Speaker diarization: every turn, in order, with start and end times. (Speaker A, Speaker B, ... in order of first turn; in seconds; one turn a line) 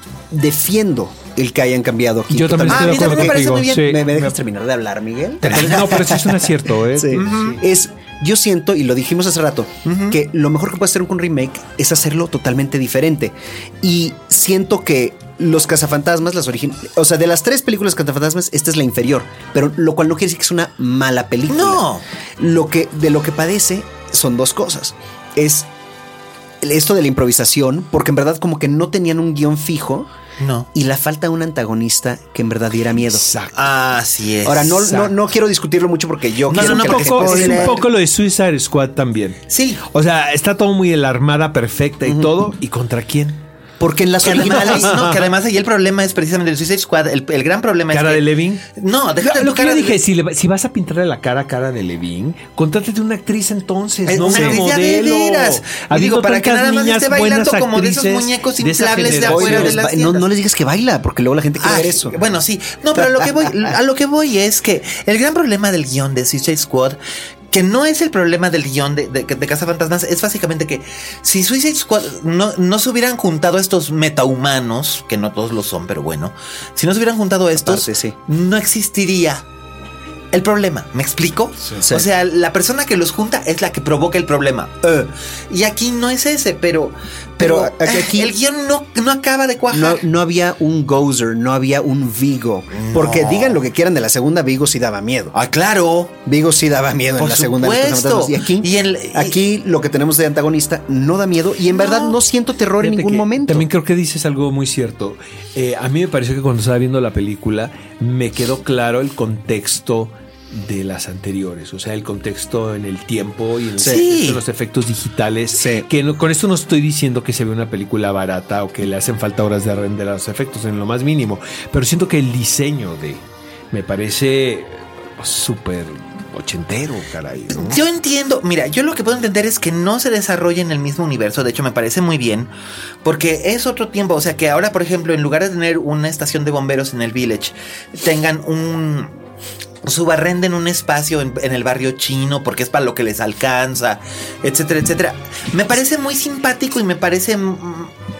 Speaker A: 0.3-21.9
Speaker B: 2.3-4.3
Speaker C: 2.7-4.2
Speaker B: 5.4-7.6
Speaker C: 7.1-7.6
Speaker C: 9.8-10.2
Speaker C: 21.5-22.0
Speaker A: 22.4-25.7
Speaker A: 26.6-30.1
Speaker C: 30.4-30.7
Speaker A: 30.7-33.3
Speaker B: 33.0-33.5
Speaker C: 33.5-35.1
Speaker A: 34.4-37.8
Speaker C: 36.5-37.9
Speaker B: 36.5-43.4
Speaker C: 39.5-39.8
Speaker A: 43.8-45.0
Speaker C: 44.2-50.0
Speaker B: 44.2-45.2
Speaker B: 47.9-48.6
Speaker B: 49.2-59.8
Speaker C: 54.1-60.2
Speaker A: 54.2-54.6
Speaker A: 59.0-62.1
Speaker C: 61.6-67.0
Speaker A: 62.9-63.8
Speaker C: 67.5-79.4
Speaker A: 77.5-78.2
Speaker C: 80.3-85.0
Speaker A: 81.8-82.1
Speaker C: 85.5-90.0
Speaker A: 87.4-88.3
Speaker A: 89.7-95.3
Speaker C: 92.7-93.6
Speaker C: 95.3-96.1
Speaker A: 96.2-103.7
Speaker C: 97.2-99.4
Speaker C: 101.7-102.2
Speaker B: 102.8-127.8
Speaker C: 113.8-114.4
Speaker A: 115.5-115.9
Speaker C: 127.5-132.5
Speaker C: 133.0-139.1
Speaker C: 139.8-147.9